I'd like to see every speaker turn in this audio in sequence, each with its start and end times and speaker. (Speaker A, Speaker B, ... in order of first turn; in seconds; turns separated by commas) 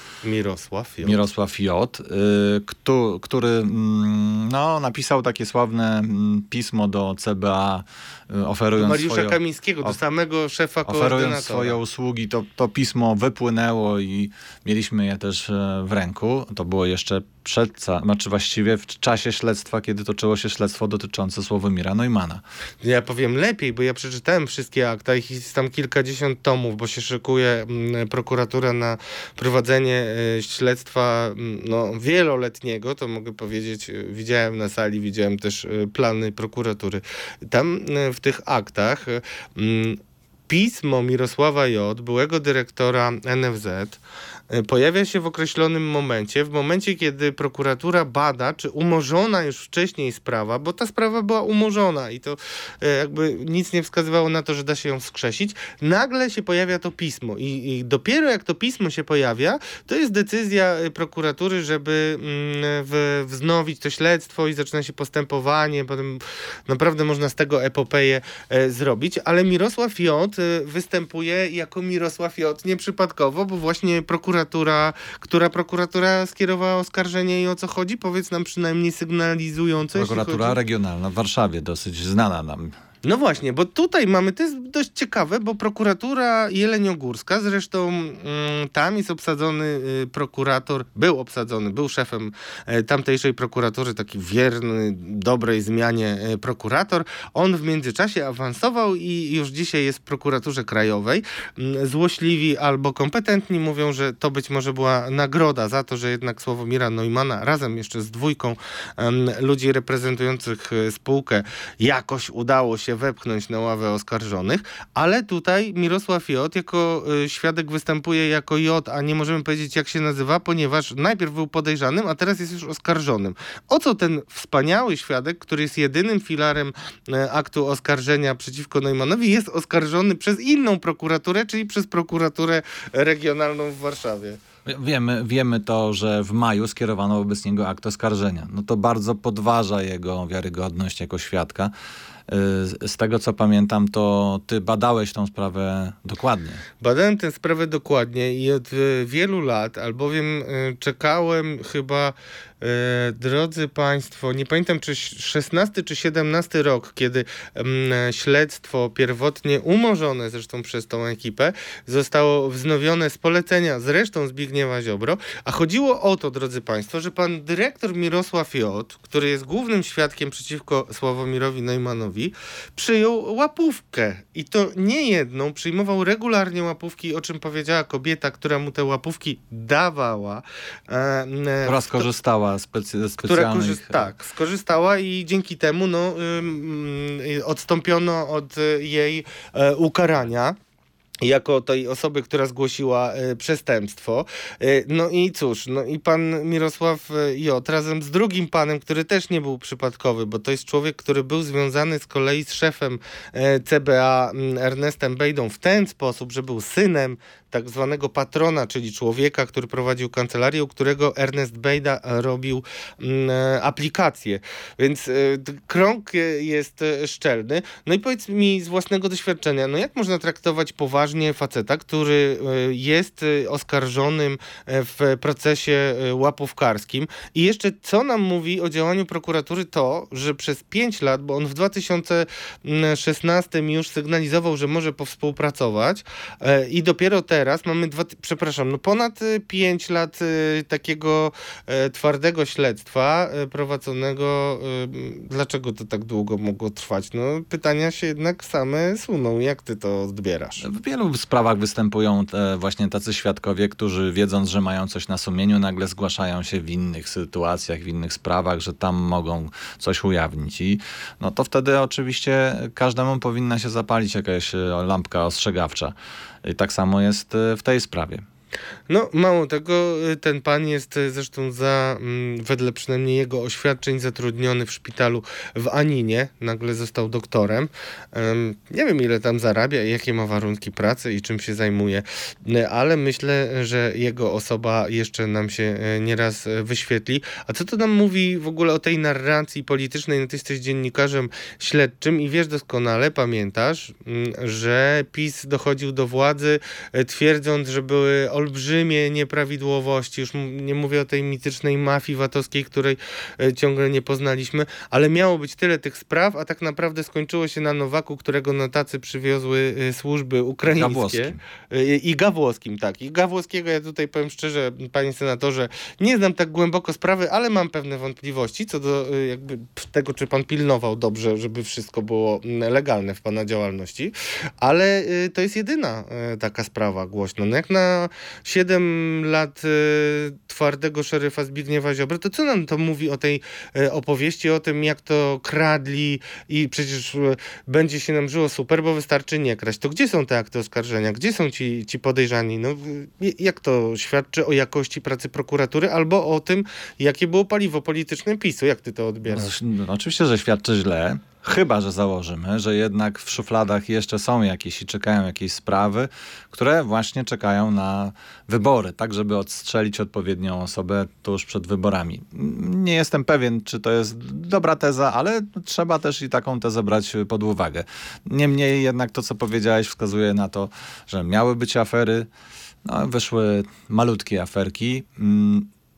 Speaker A: 0.2-1.2, Speaker B: 1.0-9.9, Speaker A: 8.8-11.8, Speaker B: 10.9-22.4, Speaker A: 22.8-80.6, Speaker B: 79.9-82.7, Speaker A: 83.0-134.4, Speaker B: 134.7-141.7, Speaker B: 142.3-146.6, Speaker A: 146.8-182.0, Speaker B: 181.6-184.1, Speaker A: 183.2-190.6, Speaker A: 191.2-250.6, Speaker B: 250.6-268.2, Speaker A: 268.9-349.5, Speaker B: 310.7-311.4, Speaker B: 349.3-372.3, Speaker B: 372.8-375.7